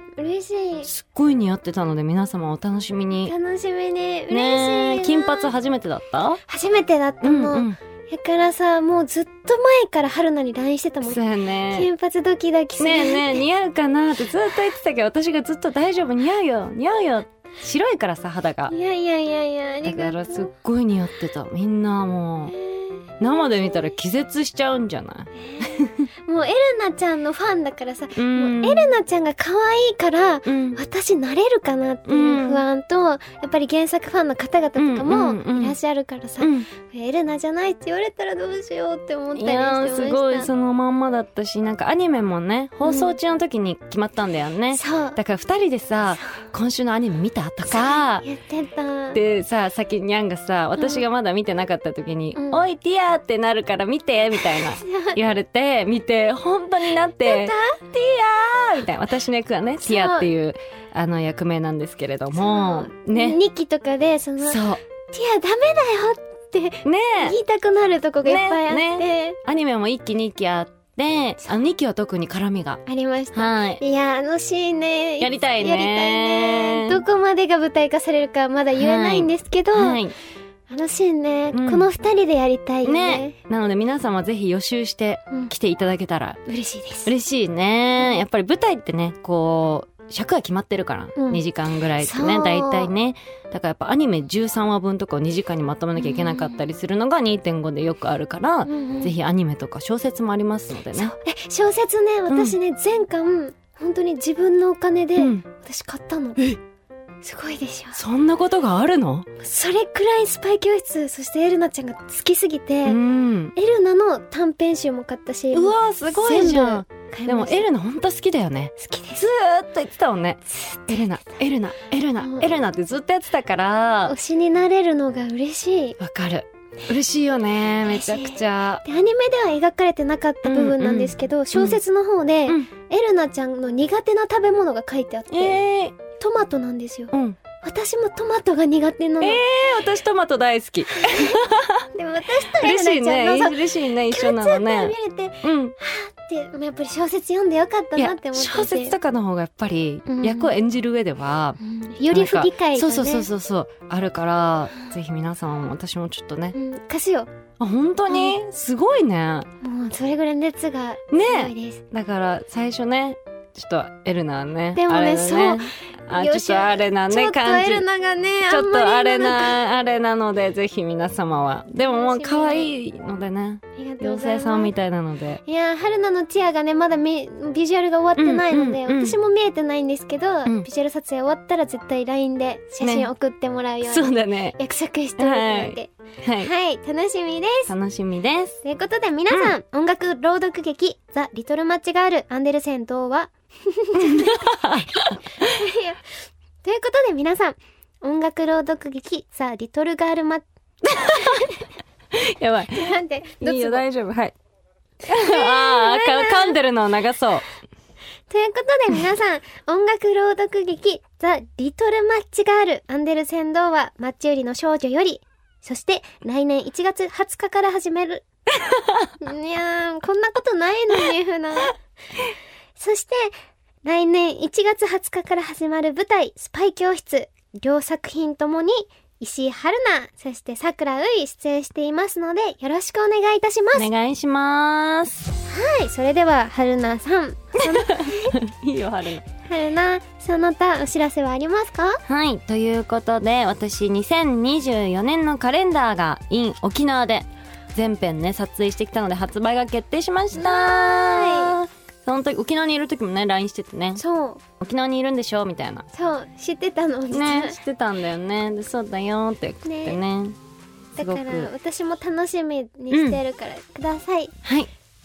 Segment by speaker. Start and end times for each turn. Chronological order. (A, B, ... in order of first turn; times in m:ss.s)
0:00.2-0:00.9 A
0:00.8-0:03.3 B
0:03.2-0:05.5 A
0:04.3-0:06.4 B
0:06.5-0:13.4 A
0:07.2-0:07.8 B
0:11.0-0:11.9 B
0:12.8-0:18.7 B
0:18.7-0:20.5 A
0:19.8-0:22.6 B
0:22.5-0:23.8 A
0:23.2-0:26.1 B
0:25.3-0:40.5 A
0:28.1-0:28.9 B
0:30.4-0:30.8 B
0:32.0-0:32.6 B
0:34.8-0:35.8 B
0:36.4-0:36.7 B
0:39.3-0:48.2 B
0:42.8-0:43.2 A
0:44.7-0:45.2 A
0:47.7-0:49.2 A
0:49.1-1:03.4 B
0:50.8-0:51.0 A
0:52.3-0:52.6 A
0:54.7-0:55.2 A
0:57.2-0:57.8 A
0:59.8-1:00.3 A
1:02.3-1:09.4 A
1:04.4-1:04.8 B
1:06.8-1:07.4 B
1:08.2-1:12.8 B
1:12.8-1:20.0 A
1:13.3-1:13.8 B
1:15.2-1:17.0 B
1:18.8-1:20.1 B
1:20.7-1:23.3 A
1:21.5-1:21.9 B
1:22.8-1:26.4 B
1:26.5-1:27.1 A
1:27.0-1:41.1 B
1:31.2-1:31.4 A
1:32.0-1:32.9 A
1:36.0-1:36.6 A
1:38.6-1:39.1 A
1:40.9-1:46.4 A
1:42.3-1:42.6 B
1:45.2-1:45.4 B
1:47.2-1:48.0 A
1:47.9-1:49.3 B
1:49.4-1:53.0 A
1:52.8-1:53.5 B
1:53.5-1:57.6 A
1:55.5-2:04.2 B
1:58.8-1:59.3 A
2:02.2-2:02.5 A
2:04.0-2:06.0 A
2:06.0-2:08.8 B
2:07.8-2:19.4 A
2:10.4-2:11.8 B
2:15.3-2:16.0 B
2:17.1-2:17.4 B
2:19.2-2:21.9 B
2:21.1-2:21.4 A
2:21.9-2:29.0 A
2:22.4-2:25.8 B
2:28.0-2:36.6 B
2:30.1-2:30.5 A
2:31.6-2:33.3 A
2:36.5-2:37.3 A
2:37.6-2:39.5 B
2:38.1-2:38.4 A
2:39.6-2:41.8 A
2:41.1-2:47.8 B
2:44.8-2:49.6 A
2:48.4-2:55.4 B
2:51.8-2:52.7 A
2:53.8-2:54.7 A
2:55.4-3:07.7 A
2:58.2-2:59.2 B
3:02.8-3:03.1 B
3:03.8-3:04.6 B
3:05.2-3:06.5 B
3:07.7-3:08.6 B
3:08.6-3:16.0 A
3:14.0-3:15.5 B
3:16.6-3:21.6 A
3:20.8-3:21.5 B
3:22.1-3:24.3 B
3:22.7-3:23.8 A
3:25.0-3:27.4 B
3:25.1-3:26.6 A
3:28.3-3:38.2 A
3:38.6-3:39.1 B
3:39.2-3:41.8 A
3:42.8-3:53.9 A
3:53.7-3:55.3 B
3:55.4-3:58.4 A
3:57.6-3:59.2 B
3:59.4-4:02.0 A
4:02.1-4:14.0 B
4:10.3-4:11.6 A
4:14.0-4:14.4 A
4:14.6-4:15.8 B
4:15.9-4:17.6 A
4:17.1-4:20.4 B
4:19.6-4:20.0 A
4:21.0-4:21.5 B
4:21.0-4:24.3 A
4:22.9-4:23.2 B
4:24.4-4:24.7 B